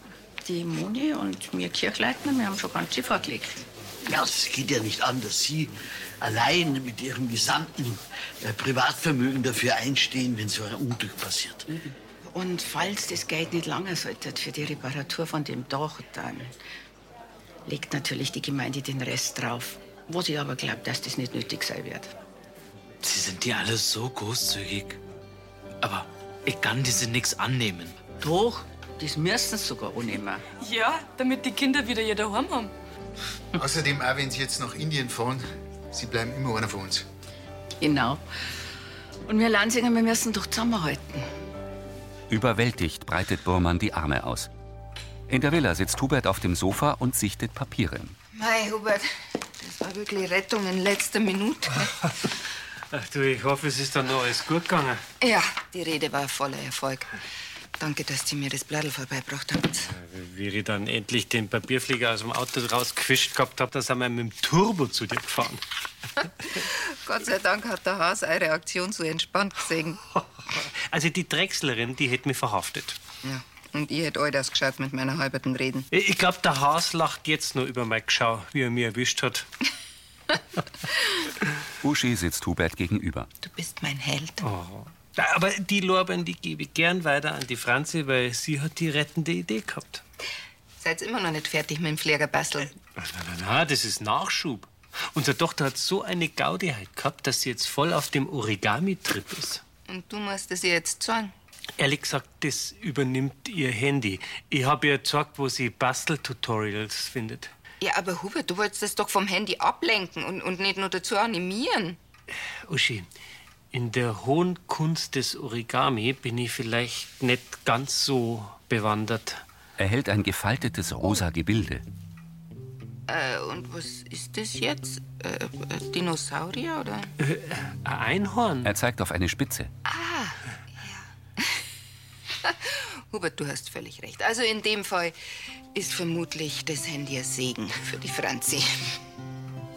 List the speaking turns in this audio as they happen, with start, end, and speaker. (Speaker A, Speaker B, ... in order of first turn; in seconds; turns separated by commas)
Speaker A: 0.4-3.7, Speaker B: 4.0-11.7, Speaker A: 12.2-16.6, Speaker A: 17.7-22.1, Speaker C: 23.0-25.0, Speaker C: 25.8-28.0, Speaker A: 28.2-30.4, Speaker D: 30.6-32.7, Speaker E: 33.6-37.1, Speaker A: 37.8-38.2, Speaker A: 39.3-41.3, Speaker F: 42.3-44.5, Speaker F: 45.3-48.2, Speaker G: 48.3-49.1, Speaker G: 49.6-51.9, Speaker H: 52.9-55.0, Speaker G: 55.2-57.1, Speaker G: 57.8-59.9, Speaker H: 59.9-65.6, Speaker G: 66.5-70.0, Speaker H: 70.9-73.0, Speaker G: 73.2-75.9, Speaker H: 75.9-79.5, Speaker F: 81.8-83.3, Speaker G: 83.4-84.5, Speaker H: 84.4-90.0, Speaker G: 90.8-92.7, Speaker H: 93.0-99.6, Speaker G: 99.9-101.3, Speaker H: 101.8-107.5, Speaker G: 107.8-112.0, Speaker H: 112.7-113.1, Speaker H: 113.7-119.4, Speaker F: 119.8-121.8, Speaker G: 123.1-127.1, Speaker H: 127.2-128.7, Speaker F: 128.6-129.7, Speaker G: 129.9-131.5, Speaker G: 132.5-135.2, Speaker G: 135.7-138.9